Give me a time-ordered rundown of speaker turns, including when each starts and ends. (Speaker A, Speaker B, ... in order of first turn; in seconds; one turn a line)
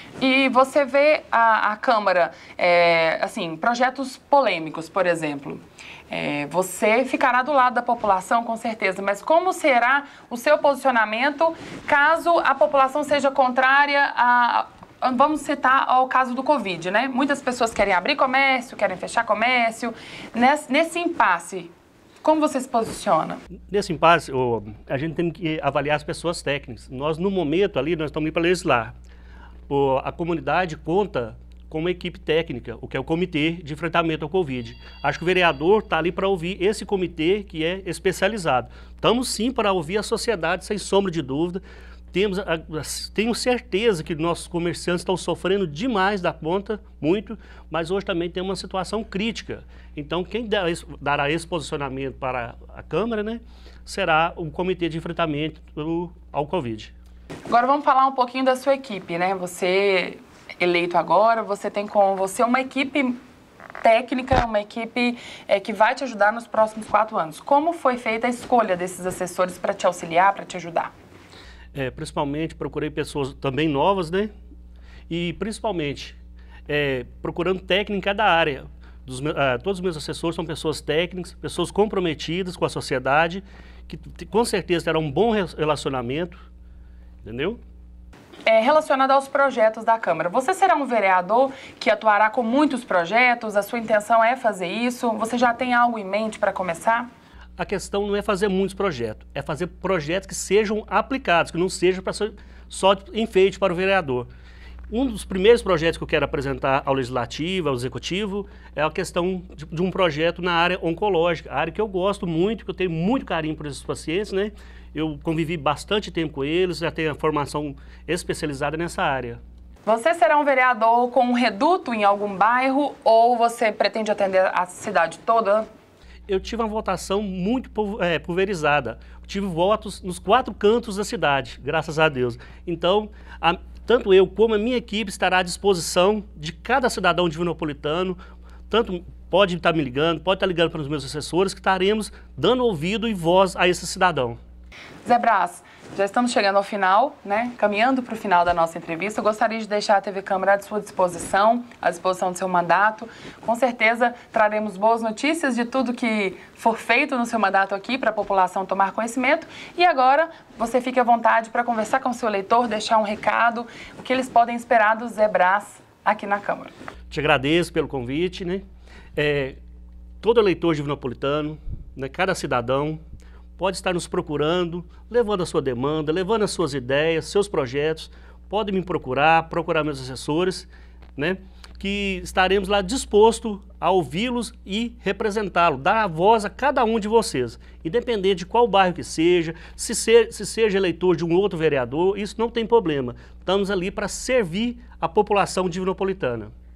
Speaker A: 0.2-23.4
Speaker B: 23.7-28.9
Speaker B: 29.7-56.9
Speaker A: 57.5-63.2
Speaker A: 63.8-70.9
Speaker B: 71.7-74.3
Speaker B: 75.1-76.2
Speaker B: 76.7-86.4
Speaker B: 87.2-87.6
Speaker A: 88.5-97.1
Speaker B: 97.6-104.3
Speaker B: 104.9-119.4
Speaker A: 119.8-125.7
Speaker B: 126.3-138.2
Speaker B: 138.7-144.4
Speaker A: 145.0-166.7
Speaker B: 167.1-168.6
Speaker B: 169.2-169.6
Speaker B: 170.2-173.0
Speaker B: 173.6-196.5